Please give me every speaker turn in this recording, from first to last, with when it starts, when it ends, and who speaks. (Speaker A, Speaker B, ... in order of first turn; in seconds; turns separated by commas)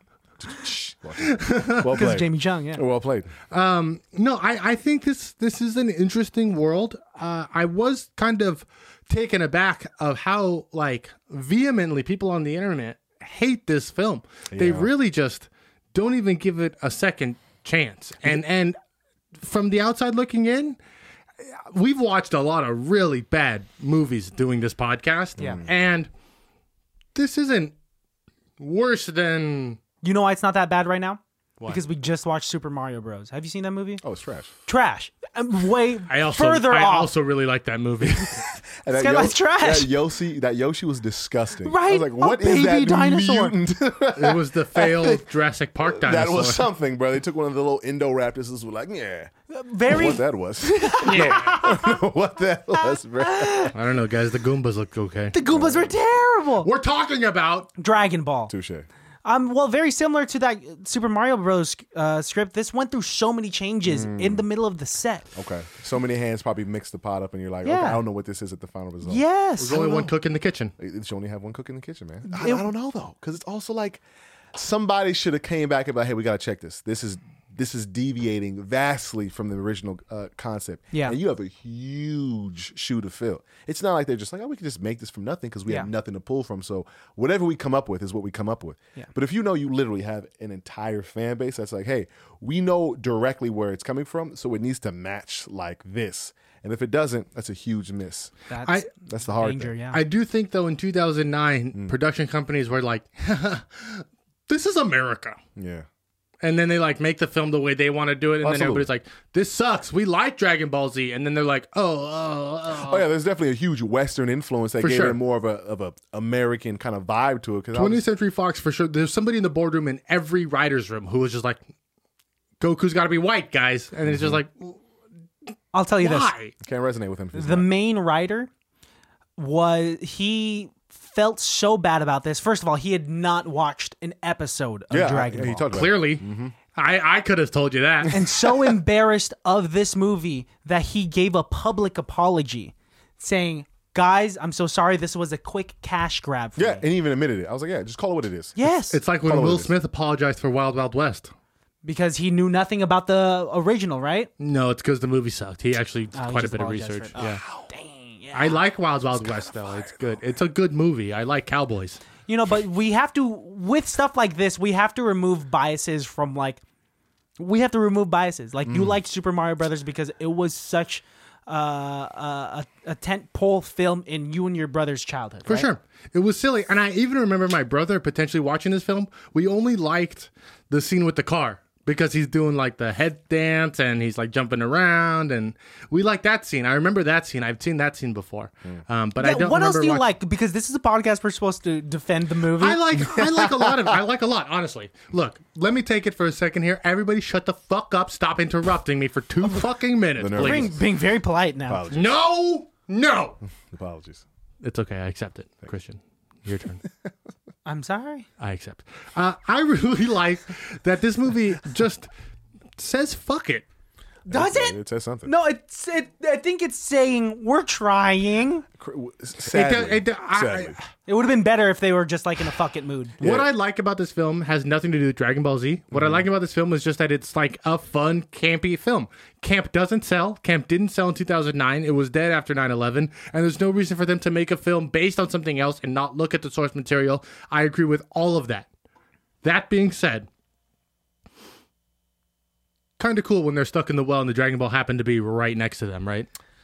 Speaker A: 0.4-3.3, Speaker B: 1.2-2.0, Speaker C: 1.9-2.8, Speaker B: 3.5-18.8, Speaker A: 14.5-14.9, Speaker B: 19.4-20.8, Speaker B: 21.7-26.1, Speaker A: 25.4-25.7, Speaker B: 27.1-27.7, Speaker B: 28.6-29.8, Speaker C: 30.0-34.0, Speaker A: 34.0-34.5, Speaker C: 34.7-37.1, Speaker B: 36.1-38.5, Speaker A: 38.0-45.2, Speaker C: 38.9-39.9, Speaker C: 41.6-43.6, Speaker B: 44.1-46.7, Speaker A: 45.8-49.3, Speaker C: 49.5-52.0, Speaker A: 49.9-53.7, Speaker B: 51.0-51.6, Speaker C: 53.2-53.7, Speaker B: 53.7-55.4, Speaker C: 55.3-56.7, Speaker A: 55.5-55.9, Speaker B: 56.6-57.7, Speaker C: 57.8-58.5, Speaker A: 58.5-58.9, Speaker C: 59.2-65.3, Speaker A: 63.9-64.5, Speaker A: 65.3-69.2, Speaker C: 67.7-68.0, Speaker C: 69.0-70.1, Speaker B: 69.6-70.7, Speaker A: 70.8-74.0, Speaker C: 72.3-72.7, Speaker A: 74.5-98.3, Speaker C: 98.5-100.0, Speaker A: 99.0-99.8, Speaker B: 99.9-105.4, Speaker A: 105.6-105.9, Speaker B: 106.4-113.1, Speaker A: 108.4-108.9, Speaker A: 112.7-118.0, Speaker B: 114.8-115.2, Speaker B: 117.7-121.6, Speaker B: 122.6-124.8, Speaker A: 124.1-124.4, Speaker C: 125.7-126.3, Speaker B: 126.0-126.5, Speaker A: 126.6-127.7, Speaker C: 127.3-128.5, Speaker C: 129.4-135.7, Speaker A: 134.9-136.6, Speaker B: 135.7-138.2, Speaker C: 138.1-146.8, Speaker A: 146.6-148.6, Speaker C: 148.6-149.0, Speaker B: 148.9-151.3, Speaker A: 149.2-149.7, Speaker C: 151.8-154.3, Speaker B: 154.4-157.4, Speaker C: 156.1-158.6, Speaker A: 157.2-157.6, Speaker B: 158.3-162.0, Speaker C: 162.3-166.6, Speaker C: 167.4-175.7, Speaker A: 168.7-168.9, Speaker B: 175.5-190.1, Speaker C: 189.2-192.8, Speaker B: 192.6-200.7, Speaker A: 192.9-194.0, Speaker A: 200.2-200.8, Speaker C: 200.3-201.9, Speaker A: 201.7-202.2, Speaker B: 201.9-203.4, Speaker A: 203.7-204.2, Speaker B: 204.6-206.8, Speaker C: 207.7-208.3, Speaker B: 208.4-212.1, Speaker B: 212.8-213.7, Speaker C: 214.3-218.7, Speaker A: 214.3-215.3, Speaker A: 218.8-220.8, Speaker B: 219.5-220.8, Speaker C: 221.1-223.2, Speaker A: 223.2-223.5, Speaker B: 223.2-238.7, Speaker A: 225.9-226.2, Speaker B: 239.4-240.3, Speaker B: 243.0-246.3